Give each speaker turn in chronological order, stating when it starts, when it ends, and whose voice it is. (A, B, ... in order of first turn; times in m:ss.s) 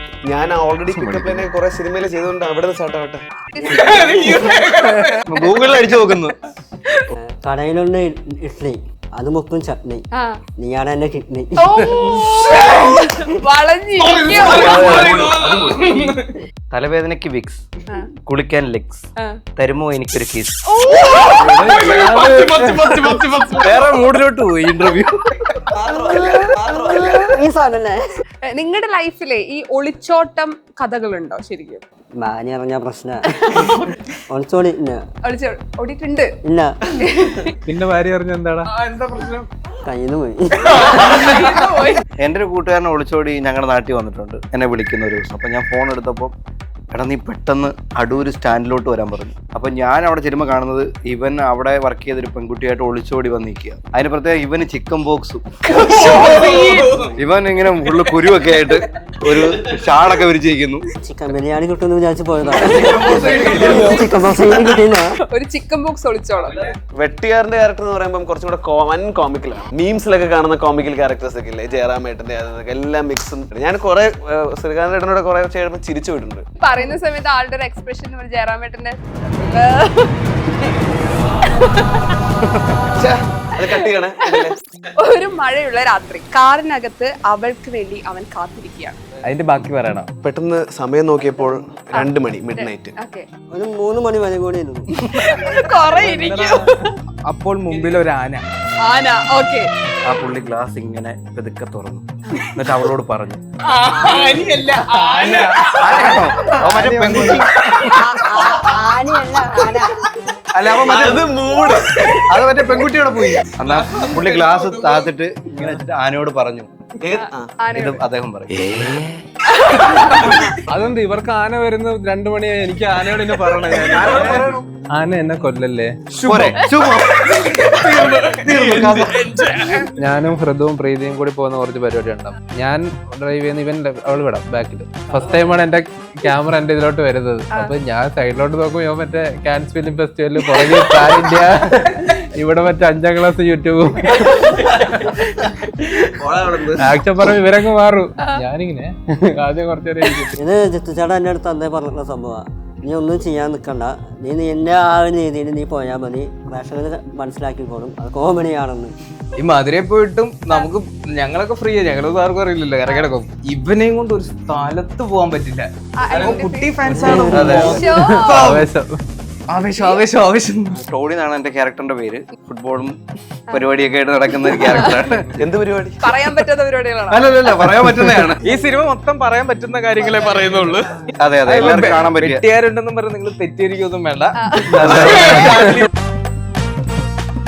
0:00.2-0:03.2 A
0:01.1-0:01.4 B
0:03.5-0:04.6 C
0:03.6-0:05.5 D
0:05.2-0:06.3 B
0:07.1-0:10.0 E
0:10.1-0:10.4 C
0:10.6-0:11.8 E
0:11.6-0:15.2 C
0:12.0-0:13.2 D
0:14.0-0:16.4 D
0:14.3-0:15.7 B
0:15.4-0:15.7 A
0:16.7-0:17.6 B
0:18.2-0:20.6 B
0:19.2-0:19.4 C
0:20.7-0:21.7 C
0:20.9-0:23.9 D
0:21.2-0:23.2 F
0:23.6-0:25.3 B
0:25.7-0:27.4 A
0:26.1-0:27.1 C
0:27.2-0:28.0 E
0:28.5-0:31.8 C
0:32.2-0:33.8 E
0:33.3-0:33.7 C
0:34.3-0:35.0 E
0:35.2-0:36.3 C
0:36.4-0:36.8 E
0:36.9-0:37.6 C
0:37.6-0:38.7 F
0:38.6-0:39.5 D
0:39.8-0:41.0 E
0:40.8-0:41.6 D
0:40.9-0:42.0 C
0:42.2-0:46.3 B
0:46.9-0:55.4 B
0:55.7-0:57.2 D
0:56.0-0:56.8 C
0:57.2-1:00.8 B
0:57.7-0:58.7 D
0:59.2-0:59.7 D
1:01.0-1:05.2 E
1:02.5-1:04.2 D
1:05.3-1:06.6 C
1:06.9-1:16.4 A
1:16.6-1:20.6 C
1:21.4-1:22.1 C
1:22.9-1:24.6 A
1:23.6-1:29.0 C
1:29.2-1:30.1 D
1:30.2-1:33.0 A
1:31.9-1:33.2 C
1:33.5-1:34.9 E
1:35.1-1:37.0 C
1:35.2-1:35.6 D
1:36.0-1:36.7 F
1:37.2-1:38.4 D
1:38.8-1:39.7 C
1:40.0-1:43.4 B
1:42.3-1:42.6 C
1:43.6-1:48.0 D
1:43.9-1:45.8 C
1:45.8-1:48.0 B
1:46.8-1:47.3 A
1:47.9-1:48.5 C
1:48.1-1:50.0 E
1:50.5-1:51.4 B
1:50.8-1:52.2 A
1:51.7-1:52.2 D
1:52.3-1:56.7 B
1:53.6-1:55.1 D
1:57.0-1:57.6 A
1:57.1-1:58.0 C
1:57.7-1:59.1 B
1:59.4-2:00.4 C
1:59.8-2:00.6 D
2:00.7-2:06.0 F
2:03.6-2:04.6 D
2:03.9-2:04.5 A
2:04.0-2:04.6 B
2:06.1-2:09.9 D
2:06.2-2:09.2 B
2:10.0-2:24.5 F
2:24.0-2:26.2 D
2:26.2-2:27.0 A
2:26.8-2:30.4 F
2:28.2-2:28.4 C
2:30.4-2:38.9 E
2:39.4-2:48.6 D
2:46.0-2:48.6 C
2:46.9-2:47.5 E
2:47.3-2:47.8 B
2:47.8-2:49.0 F
2:49.5-2:50.8 D
2:49.8-2:50.0 C
2:50.8-2:53.0 B
2:53.5-2:55.3 B
2:54.6-2:55.1 C
2:55.4-2:56.0 A
2:56.0-2:57.4 C
2:57.1-2:58.4 B
2:58.4-3:05.9 D
3:01.2-3:02.4 B
3:04.4-3:05.4 C
3:04.7-3:05.7 B
3:05.4-3:05.8 F